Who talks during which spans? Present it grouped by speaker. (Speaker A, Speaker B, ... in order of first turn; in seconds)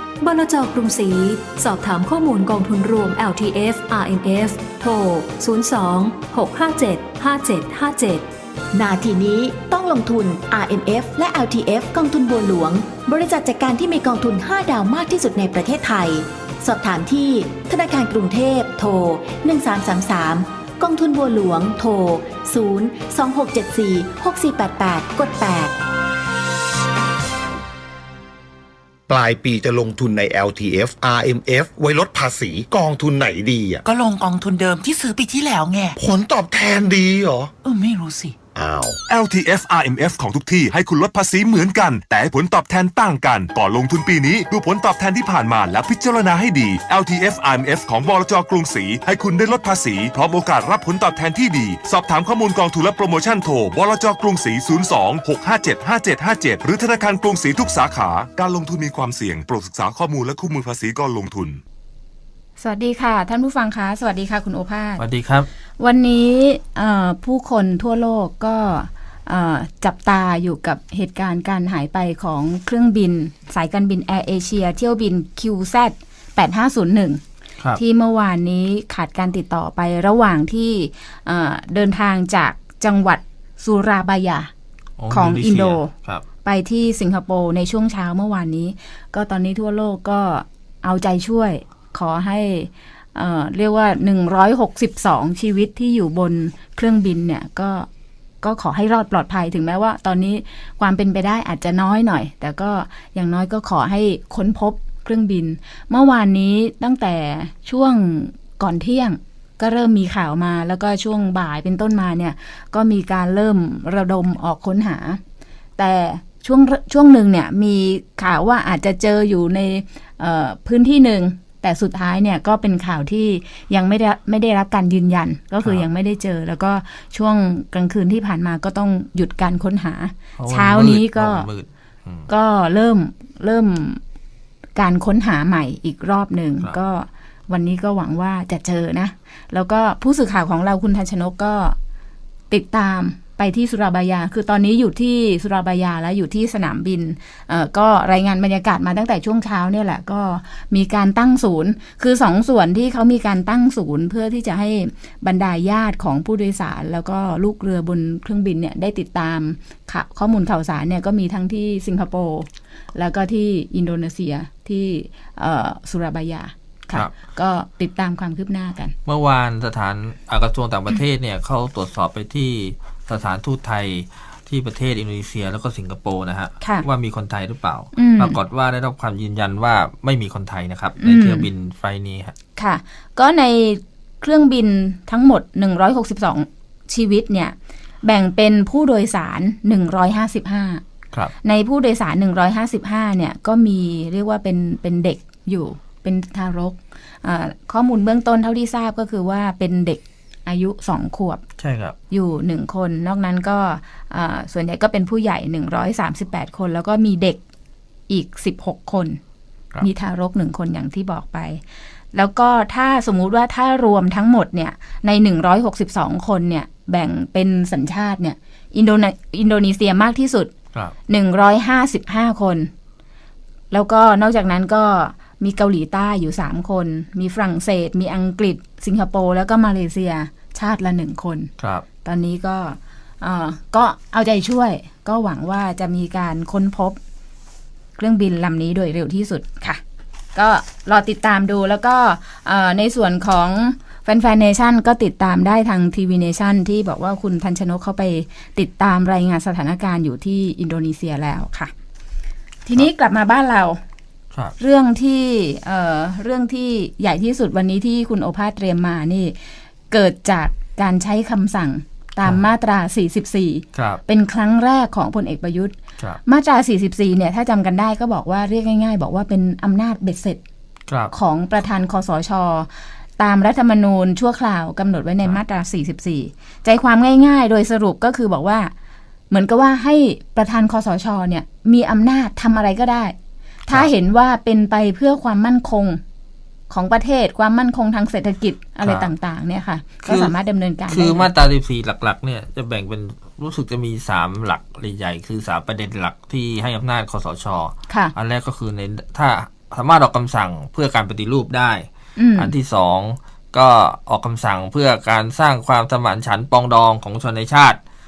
Speaker A: 0.2-8.3
Speaker B: 8.7-25.7
Speaker C: 29.1-33.8, 36.0-37.5, 38.5-39.0
Speaker D: 33.8-36.0, 37.6-38.4
Speaker E: 39.1-61.6
Speaker F: 62.6-65.0, 65.8-77.2, 77.8-84.5, 85.1-85.9, 86.4-97.9, 98.4-115.2, 115.8-131.5, 132.3-134.0, 134.8-141.8, 142.5-168.9, 176.6-176.8, 177.9-178.3, 181.0-181.5, 182.6-190.8, 191.4-201.4, 202.1-207.4, 208.1-209.2, 209.8-211.6, 212.1-220.5, 221.1-222.7, 223.7-231.5, 232.0-237.0, 238.0-239.8, 240.3-251.7, 252.6-253.8, 254.6-259.3, 259.9-265.7, 266.2-270.4, 271.1-272.7, 273.2-278.7, 279.3-283.1, 283.7-286.0, 286.7-291.3, 302.2-302.5
Speaker G: 65.0-65.5, 85.0-86.2, 130.4-132.3, 169.1-182.3, 201.6-201.9, 231.6-231.8, 263.7-264.0, 288.8-289.1, 290.0-290.3, 290.9-307.8